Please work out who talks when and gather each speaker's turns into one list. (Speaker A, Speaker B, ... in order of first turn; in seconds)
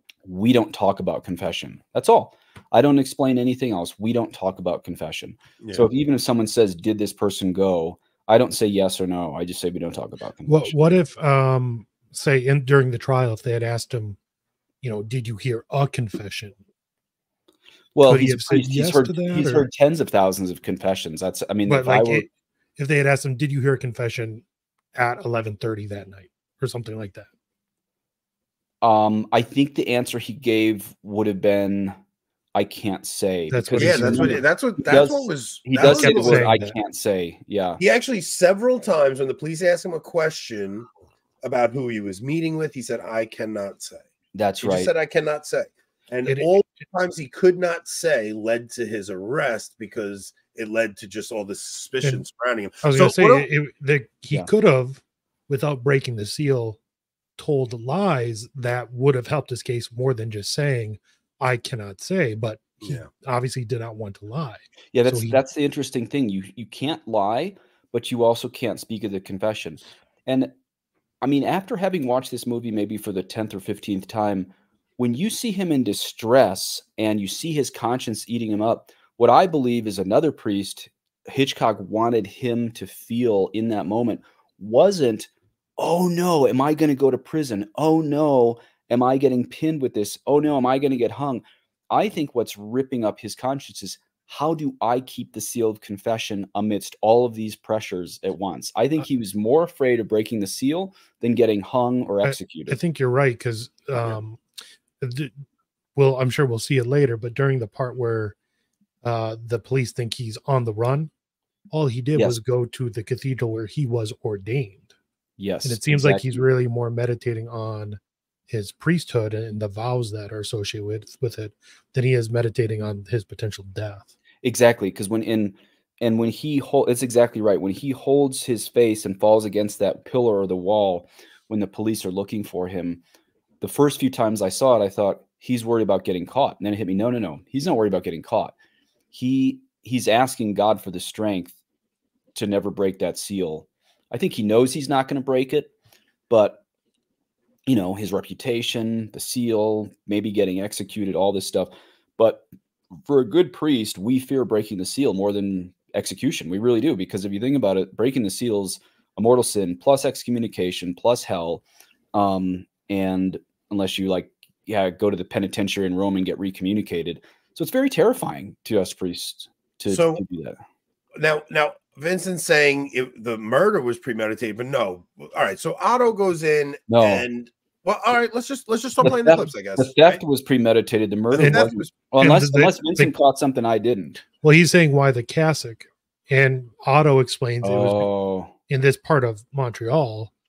Speaker A: 0.2-10.7, 17.9-22.2, 28.8-32.0, 32.5-37.8, 44.3-44.9, 64.9-70.5, 71.2-102.8, 115.4-116.4, 124.4-133.0, 133.6-138.5, 139.1-141.6, 142.3-145.7, 146.3-146.6, 147.7-161.6, 162.1-170.6, 176.9-177.3, 179.0-184.2, 187.6-188.5
Speaker B: 5.6-5.9, 33.8-36.5, 37.8-40.9, 41.4-44.1, 44.6-53.5, 62.8-63.1, 169.9-170.2, 171.2-180.2, 181.3-181.9
Speaker C: 10.5-14.2, 14.8-16.6, 18.0-19.7, 21.6-24.4, 24.9-27.3, 33.5-34.4, 35.8-36.7, 52.8-56.8, 57.4-65.4, 102.2-104.4, 105.0-105.3, 106.0-108.3, 109.0-111.1, 111.7-114.9, 115.6-124.1, 182.2-183.1, 184.4-188.1, 188.7-190.3